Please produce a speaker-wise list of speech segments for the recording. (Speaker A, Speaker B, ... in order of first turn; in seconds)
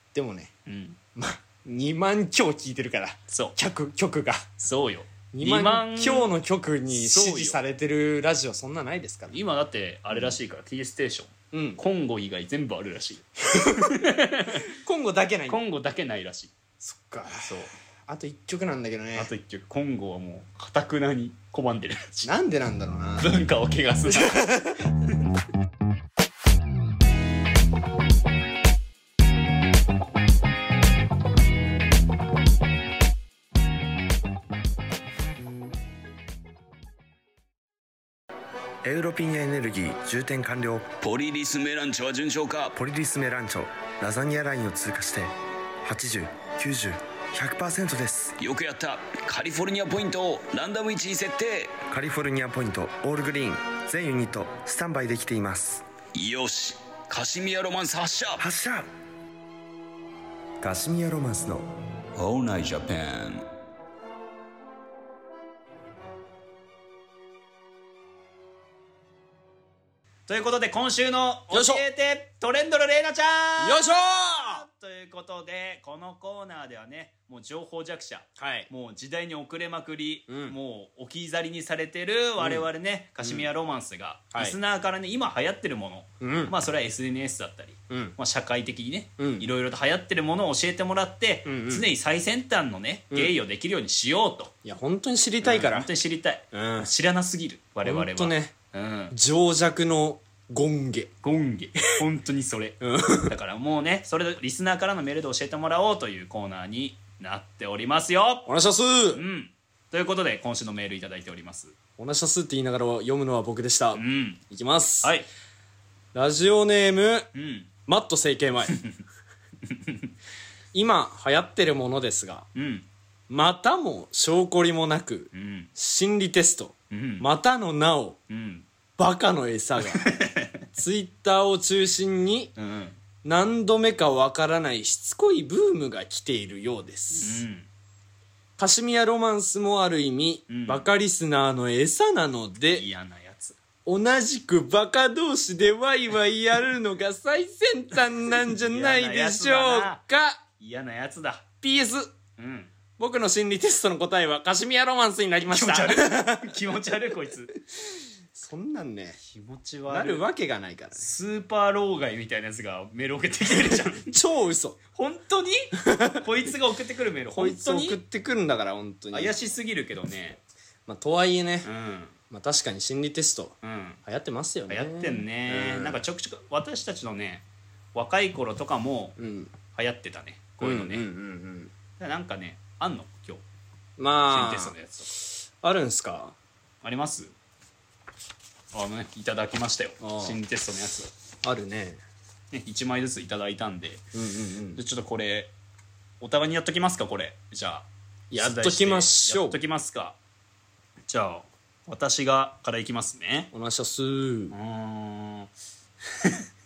Speaker A: 0.1-0.5, 1.1-4.6, 5.3-9.4, 11.5-11.8, 13.5-14.1, 14.7-15.6, 16.8-17.5, 18.1-19.3, 22.2-23.4, 24.1-24.8, 71.5-71.8, 73.6-74.6, 78.4-78.7, 80.3-80.6, 82.4-82.7, 83.2-83.5, 86.2-86.5, 87.9-88.2, 89.2-89.5, 91.4-91.9, 94.6-95.9, 96.5-96.9, 97.8-98.5, 99.1-101.1, 102.8-103.3, 108.5-109.2, 112.0-115.1, 116.1-117.3, 117.8-118.8, 120.7-122.5, 123.3-128.2, 129.0-130.2, 130.7-132.5, 133.2-137.4, 138.6-142.9, 143.8-150.4, 151.6-152.1, 153.0-156.6, 158.3-159.2, 159.9-161.1, 164.1-164.8, 165.8-166.2, 167.3-169.4, 170.8-171.7, 172.3-176.0, 179.2-179.5, 180.6-181.7, 184.0-186.3, 190.0-190.4, 191.4-192.0, 194.1-194.8, 198.3-199.6, 203.5-204.6
Speaker B: 0.7-1.0, 3.3-3.5, 4.6-6.3, 6.9-7.6, 9.3-13.2, 13.8-14.6, 15.5-16.5, 17.3-17.7, 19.1-22.3, 23.2-24.6, 70.3-94.5, 95.4-99.1, 101.2-108.5, 109.1-111.7, 113.9-114.4, 115.0-115.3, 117.3-117.7, 119.7-120.0, 122.5-122.8, 125.3-125.7, 126.9-127.2, 128.3-128.7, 129.9-130.6, 132.6-133.0, 137.2-137.7, 140.5-140.9, 142.7-143.6, 148.3-150.0, 150.6-151.5, 152.4-152.7, 155.5-157.5, 159.2-160.3, 160.9-164.1, 164.9-168.0, 169.1-170.4, 171.6-172.1, 173.6-174.0, 174.7-179.2, 179.7-181.0, 182.0-183.4, 184.3-185.1, 186.8-187.3, 188.7-191.1, 192.5-194.0, 194.8-195.5, 196.2-200.2, 201.1-203.5, 204.5-205.5
Speaker C: 38.8-41.0, 42.7-45.3, 45.8-48.4, 51.8-55.8, 58.4-58.9, 60.6-61.7
Speaker D: 57.3-58.2, 62.2-63.4